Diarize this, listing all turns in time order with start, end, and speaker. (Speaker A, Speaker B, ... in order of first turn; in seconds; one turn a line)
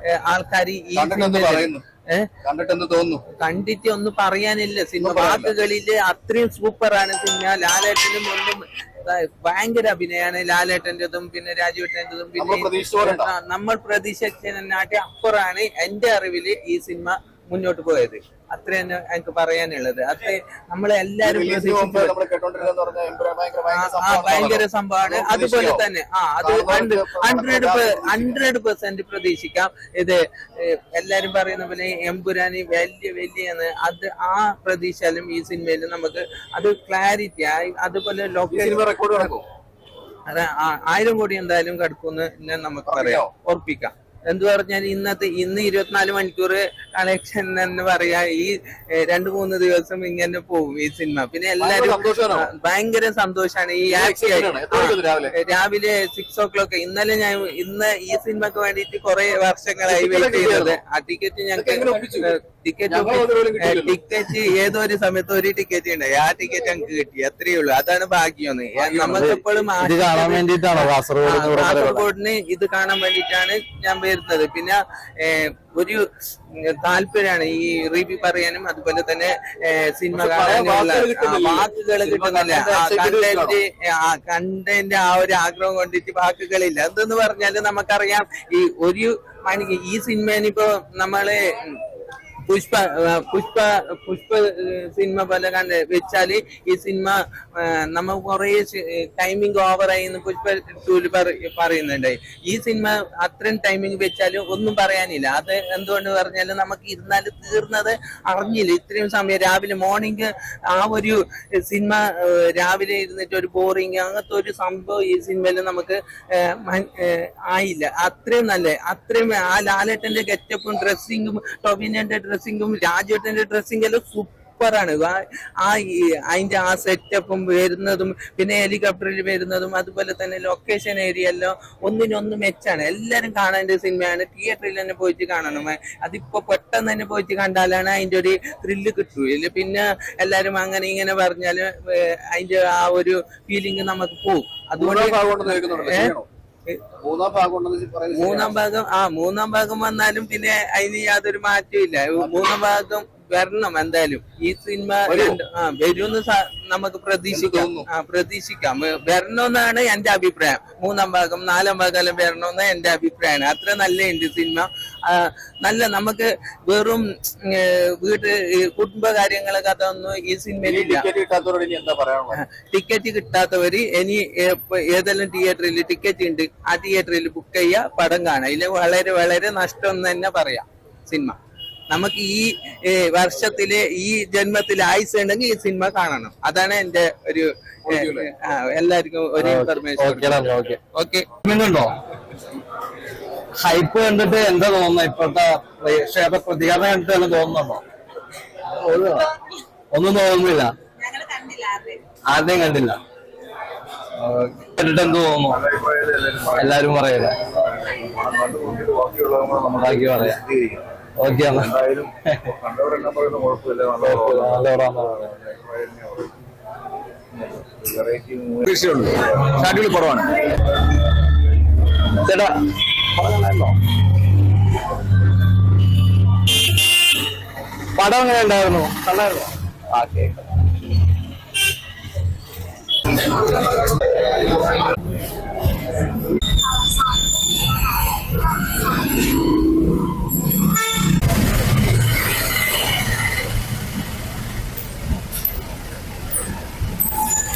Speaker A: 0.2-2.3
Speaker B: 0.9-1.8
Speaker B: 2.4-3.2
Speaker A: 3.4-22.1
Speaker B: 5.0-5.5
Speaker B: 12.4-13.3
Speaker B: 21.2-25.8
Speaker A: 23.7-38.9
Speaker B: 26.4-28.4
Speaker B: 38.5-39.4
Speaker A: 40.3-76.0
Speaker B: 42.9-43.3
Speaker B: 51.6-52.5
Speaker B: 53.8-55.3
Speaker B: 59.9-60.8
Speaker B: 61.5-62.3
Speaker B: 62.9-64.0
Speaker B: 68.8-69.2
Speaker C: 69.1-72.1
Speaker A: 76.6-91.8
Speaker B: 80.1-83.6
Speaker A: 92.5-146.1
Speaker B: 144.8-146.2
Speaker B: 147.0-148.6
Speaker A: 148.1-171.1
Speaker B: 152.2-152.5
Speaker B: 155.1-155.4
Speaker B: 157.3-157.8
Speaker B: 170.6-172.4
Speaker A: 172.3-181.3
Speaker A: 181.9-191.3
Speaker B: 187.8-188.3
Speaker C: 189.3-190.8
Speaker C: 191.4-191.9
Speaker C: 193.6-197.8
Speaker C: 198.8-199.3
Speaker C: 199.9-200.7
Speaker A: 201.1-201.9
Speaker C: 202.3-203.0
Speaker C: 204.6-205.6
Speaker D: 205.5-206.7
Speaker C: 206.5-207.4
Speaker D: 207.9-210.8
Speaker C: 209.7-210.4
Speaker C: 211.2-212.5
Speaker D: 211.6-212.1
Speaker D: 212.6-216.3
Speaker C: 214.0-215.3
Speaker D: 217.5-218.7
Speaker B: 218.6-220.3
Speaker C: 223.2-223.7
Speaker C: 227.9-229.5